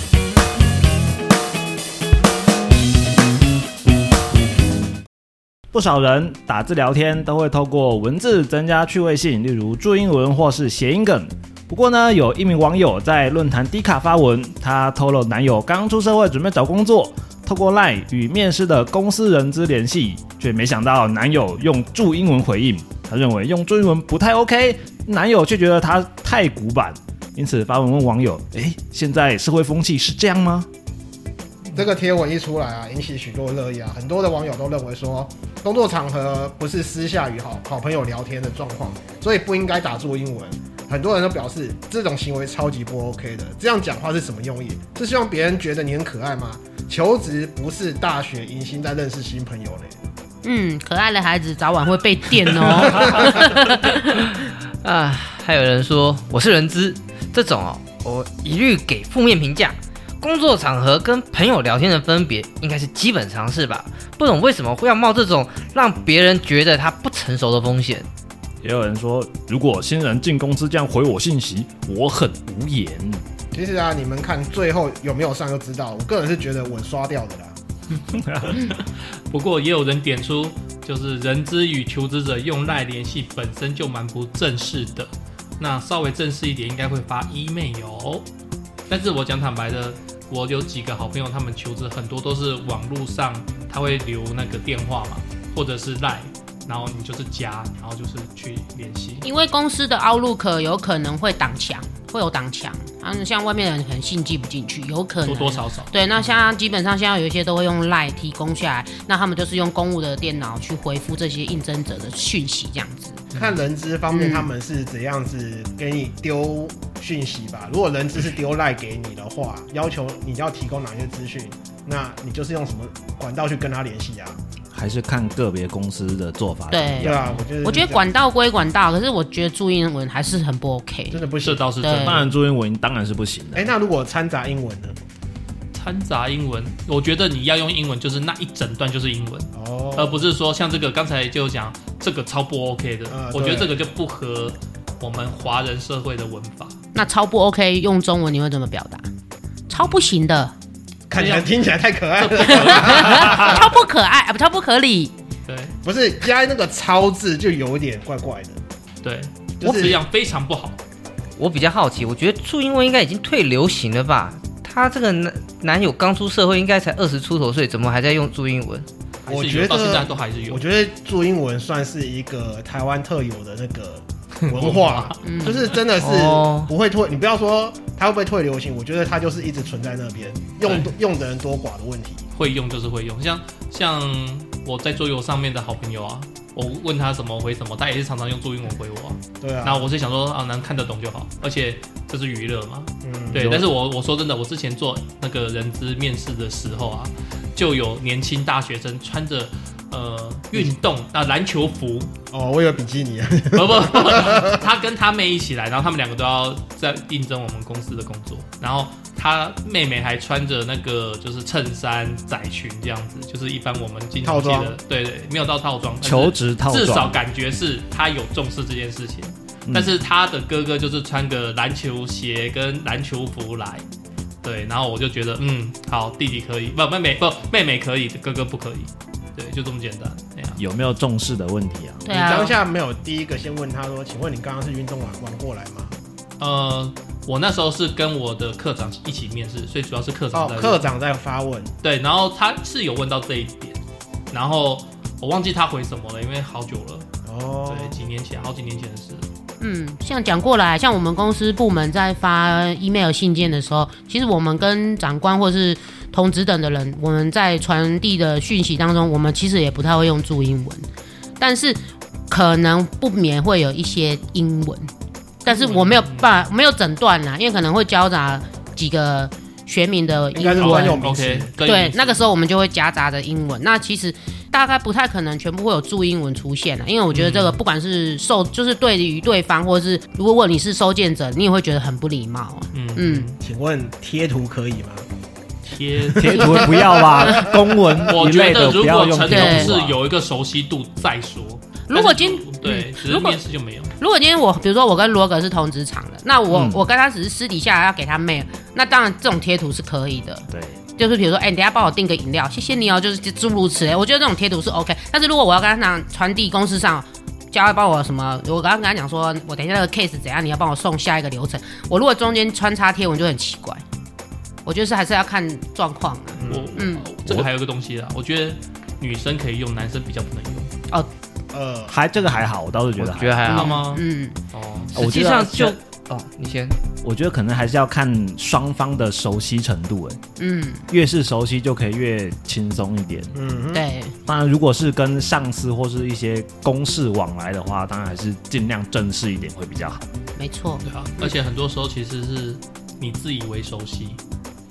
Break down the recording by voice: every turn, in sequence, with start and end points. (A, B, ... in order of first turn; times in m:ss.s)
0:05.7-0:30.7 A
0:31.7-0:50.0 B
0:50.4-0:54.2 C
0:52.8-0:53.2 B
0:54.0-1:08.1 D
1:08.6-1:13.2 A
1:13.5-1:17.6 B
1:18.2-1:18.6 A
1:18.6-1:28.3 E
1:28.9-1:39.2 E
1:39.2-1:53.2 C
1:45.2-1:46.3 E
1:53.4-2:04.4 B
1:54.1-1:54.5 C
2:04.7-2:07.3 A
2:06.7-2:11.2 C
2:07.0-2:08.1 B
2:11.1-2:11.7 B
2:11.4-2:12.3 E
2:11.8-2:12.2 C
2:12.0-2:13.7 A
2:13.6-2:15.0 B
2:15.7-2:26.8 E
2:19.5-2:20.3 B
2:23.1-2:23.8 B
2:26.9-2:29.0 C
2:29.7-2:30.5 C
2:29.7-2:30.0 E
2:31.1-2:33.7 B
2:31.1-2:31.6 E
2:32.2-2:33.6 E
2:32.4-2:35.1 C
2:35.5-2:35.8 E
2:35.8-2:38.6 B
2:39.0-2:40.8 E
2:39.6-2:40.0 B
2:41.4-2:48.9 D
2:49.2-2:50.6 E
2:49.3-3:02.3 B
2:54.5-2:55.2 E
2:55.2-2:55.7 C
2:56.0-2:56.7 D
3:00.6-3:00.9 E
3:02.4-3:22.1 E
3:09.4-3:09.9 B
3:13.0-3:13.6 B
3:22.3-3:24.6 B
3:23.5-3:43.8 E
3:34.2-3:34.8 B
3:36.0-3:37.2 A
3:39.7-3:40.0 A
3:44.4-3:50.6 E
3:50.6-3:52.1 A
3:52.1-3:52.6 C
3:52.1-3:55.9 B
3:56.4-4:00.9 E
4:00.3-4:01.7 B
4:01.8-4:03.8 E
4:04.3-4:07.1 E
4:07.3-4:08.0 B
4:07.7-4:09.3 E
4:09.6-4:20.9 C
4:21.4-4:24.9 C
4:25.4-4:31.0 C
4:25.5-4:26.3 E
4:30.3-4:31.5 B
4:30.6-4:32.2 E
4:31.6-4:43.3 C
4:37.1-4:37.6 E
4:42.7-4:43.4 E
4:43.4-4:45.1 B
4:45.6-4:46.9 E
4:46.2-4:50.0 A
4:46.2-4:47.6 B
4:48.1-4:53.9 E
4:49.3-4:49.8 C
4:51.9-4:53.4 C
4:54.0-5:13.8 C
4:56.5-4:56.8 A
5:00.5-5:00.8 A
5:14.7-5:17.1 C
5:16.4-5:16.8 B
5:16.5-5:20.7 E
5:21.5-5:22.0 B
5:21.9-5:23.5 A
5:23.0-5:23.8 D
5:23.5-5:24.4 C
5:23.5-5:24.9 E
5:24.9-5:26.8 D
5:25.0-5:25.8 A
5:27.0-5:30.2 A
5:30.4-5:30.8 C
5:30.9-5:33.4 A
5:33.4-5:33.8 B
5:33.7-5:34.1 C
5:34.3-5:40.0 A
5:40.4-5:41.3 C
5:40.9-5:44.2 E